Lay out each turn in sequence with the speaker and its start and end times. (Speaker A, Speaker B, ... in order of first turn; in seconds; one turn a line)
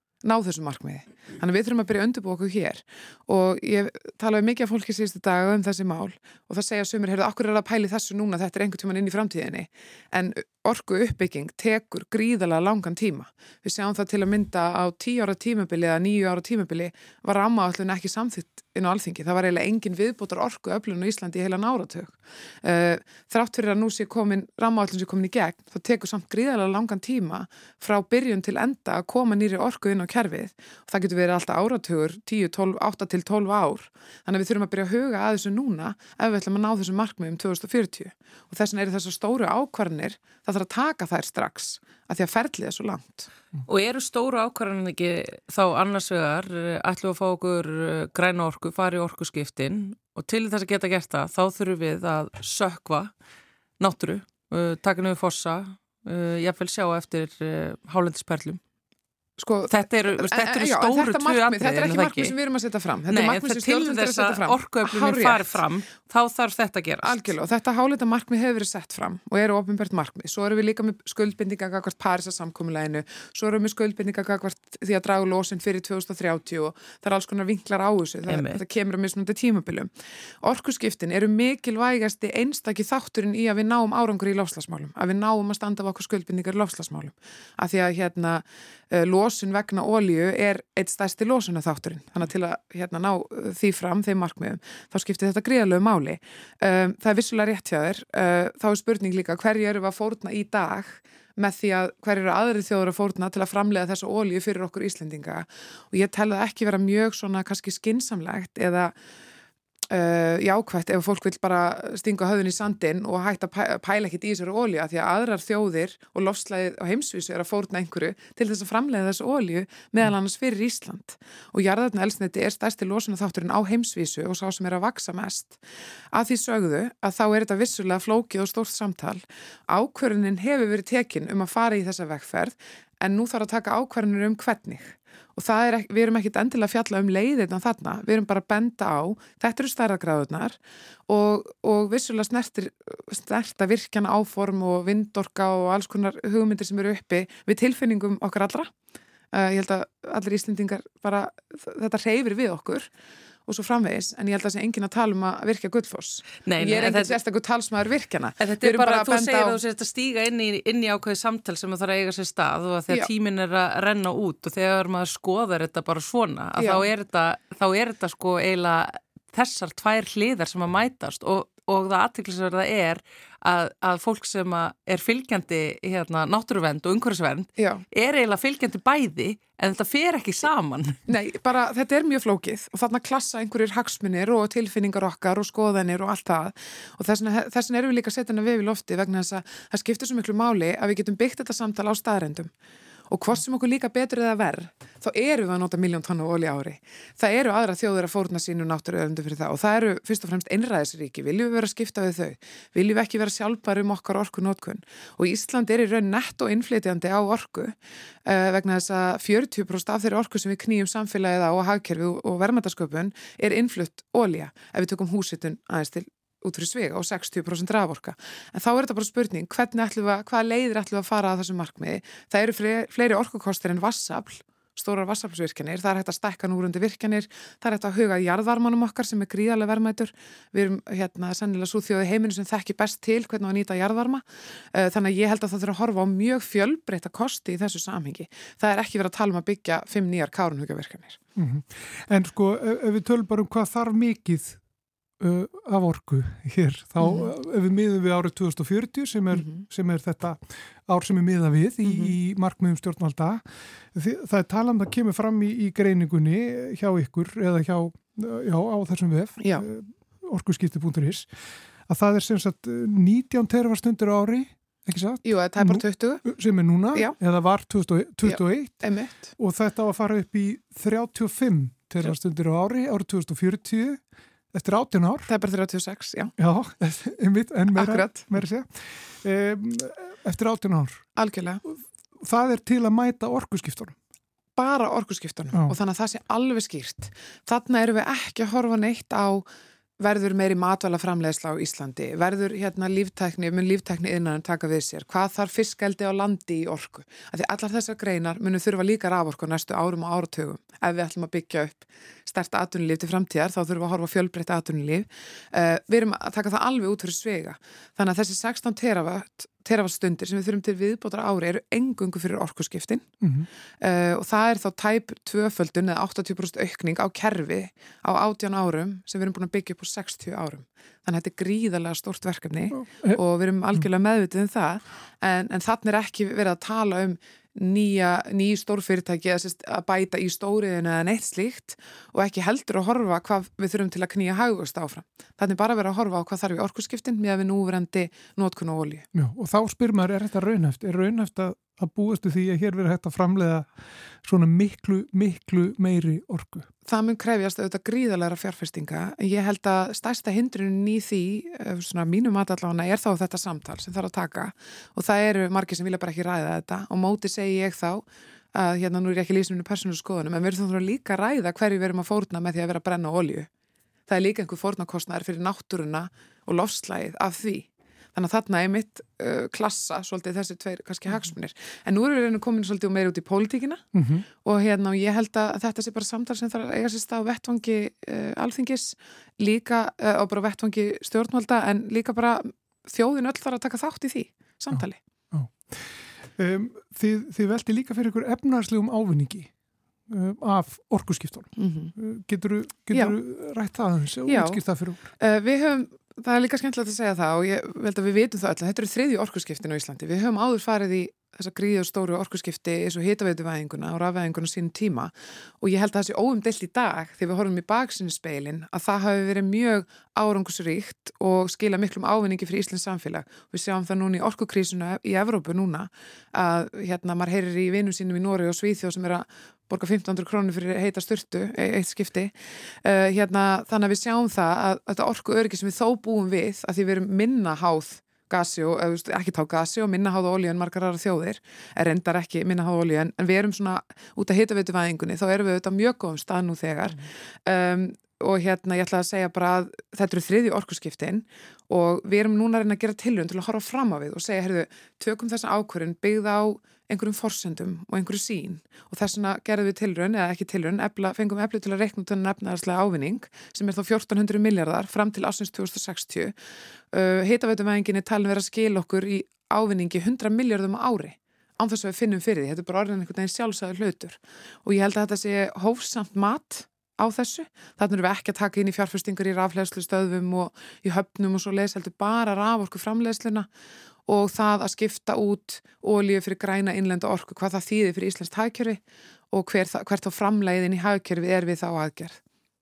Speaker A: 0.2-43.3
Speaker B: 43.7-53.1
Speaker B: 53.8-58.6
Speaker A: 59.4-65.6
Speaker B: 59.7-62.4
Speaker B: 63.1-67.4
Speaker A: 67.0-79.9
Speaker B: 78.3-78.6
Speaker A: 80.4-108.9
Speaker A: 109.9-125.6
Speaker A: 126.1-148.7
Speaker A: 149.3-152.9
Speaker A: 153.5-159.6
Speaker B: 156.4-157.2
Speaker B: 158.4-181.0
Speaker A: 166.6-166.8
Speaker A: 177.6-177.8
Speaker A: 181.1-192.5
Speaker A: 193.1-207.8
Speaker A: 208.3-241.2
Speaker C: 241.4-244.6
Speaker C: 245.2-261.3
Speaker A: 247.0-247.3
Speaker A: 249.3-249.6
Speaker A: 251.8-252.2
Speaker A: 259.4-259.7
Speaker C: 261.9-274.0
Speaker A: 265.2-266.3
Speaker A: 268.2-269.3
Speaker C: 274.5-275.3
Speaker A: 275.3-276.3
Speaker C: 276.4-281.1
Speaker A: 277.7-278.4
Speaker A: 281.2-281.6
Speaker C: 281.7-284.0
Speaker A: 284.6-289.5
Speaker A: 290.0-313.1
Speaker C: 313.2-313.5
Speaker A: 313.8-339.1
Speaker C: 322.7-323.2
Speaker C: 339.1-343.7
Speaker C: 344.2-346.7
Speaker A: 346.9-363.5
Speaker A: 364.1-373.9
Speaker C: 373.9-374.3
Speaker A: 374.4-385.0
Speaker C: 384.7-389.5
Speaker C: 390.1-395.1
Speaker A: 391.6-391.9
Speaker A: 394.3-394.6
Speaker A: 395.2-422.3
Speaker A: 422.8-456.3
Speaker A: 456.9-473.5
Speaker A: 474.1-478.8
Speaker A: 479.3-482.2